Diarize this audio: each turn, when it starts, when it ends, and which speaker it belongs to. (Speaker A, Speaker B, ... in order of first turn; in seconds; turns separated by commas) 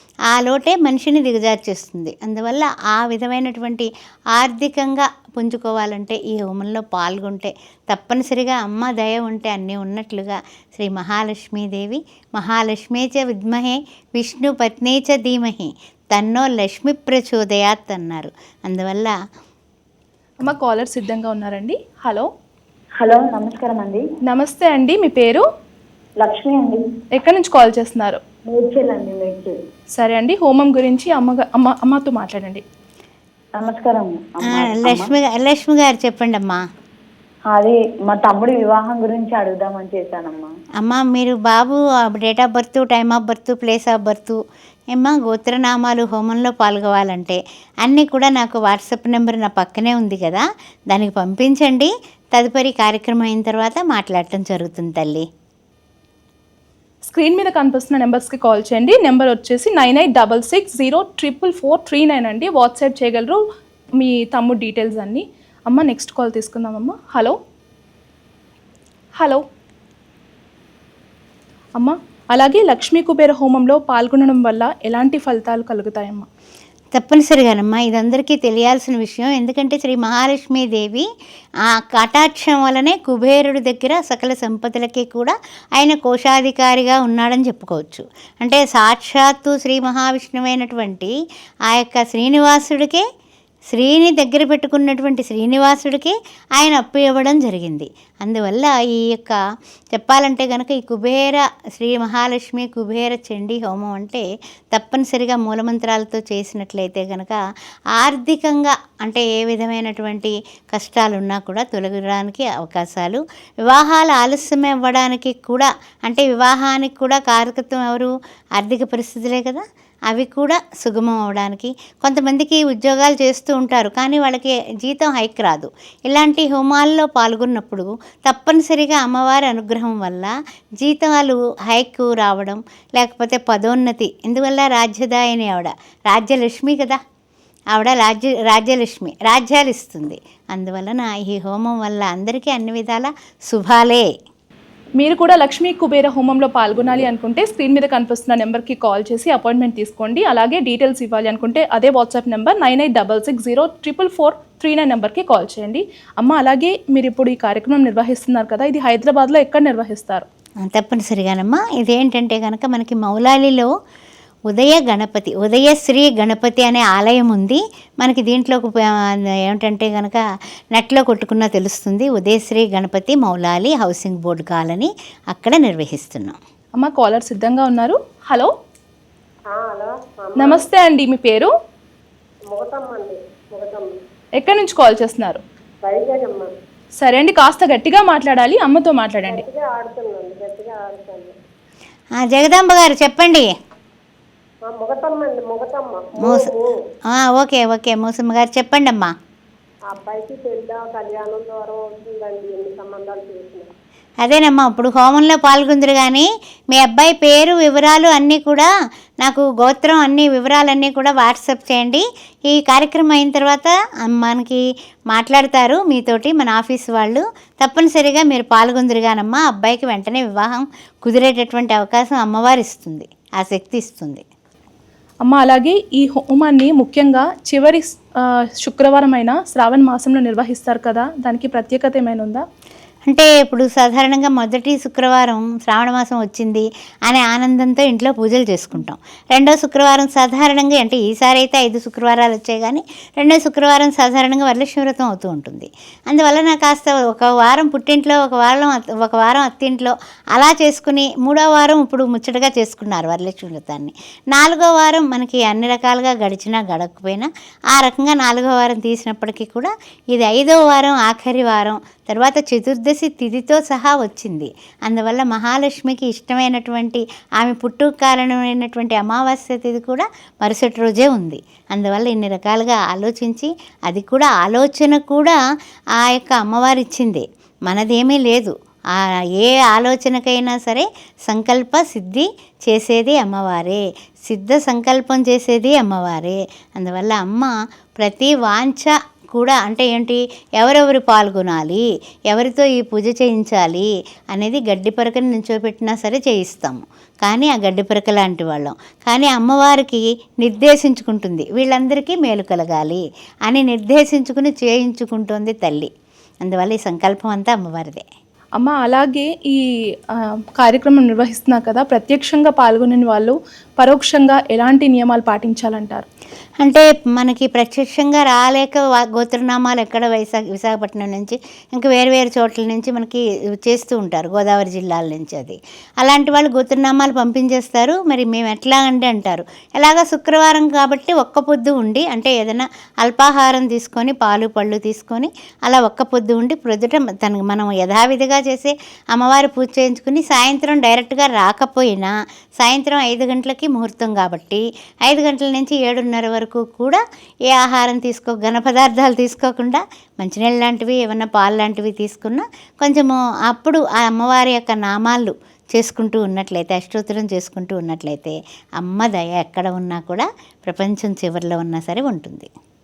Speaker A: 0.3-19.1, Speaker B: 20.4-22.3, Speaker C: 23.0-24.0, Speaker B: 24.3-25.4, Speaker C: 26.2-26.8, Speaker B: 27.2-28.2, Speaker C: 28.5-29.5, Speaker B: 30.0-32.6, Speaker C: 33.6-35.1, Speaker A: 34.5-36.6, Speaker C: 37.5-40.5, Speaker A: 40.8-44.4, Speaker A: 44.9-55.3, Speaker B: 57.0-63.4, Speaker B: 64.0-67.3, Speaker B: 71.8-76.3, Speaker A: 76.9-81.1, Speaker A: 81.6-91.1, Speaker A: 91.7-93.0, Speaker A: 93.7-99.4, Speaker A: 99.9-107.4, Speaker A: 107.9-137.0, Speaker A: 137.7-144.1, Speaker B: 145.0-160.2, Speaker A: 160.6-163.7, Speaker A: 164.5-170.2, Speaker A: 170.7-176.4, Speaker B: 176.8-178.5, Speaker D: 179.5-180.6, Speaker B: 180.4-181.5, Speaker D: 182.5-183.9, Speaker B: 184.4-185.4, Speaker D: 185.8-186.5, Speaker B: 187.0-189.4, Speaker D: 189.3-191.3, Speaker A: 192.2-193.5, Speaker D: 194.6-196.7, Speaker A: 196.2-196.5, Speaker A: 197.1-199.1, Speaker D: 199.9-203.7, Speaker A: 204.2-208.7, Speaker A: 209.2-224.2, Speaker B: 225.2-232.4, Speaker A: 233.1-275.4, Speaker A: 275.9-305.9, Speaker A: 306.4-308.1, Speaker B: 308.6-309.6, Speaker B: 310.1-316.1, Speaker A: 316.6-362.5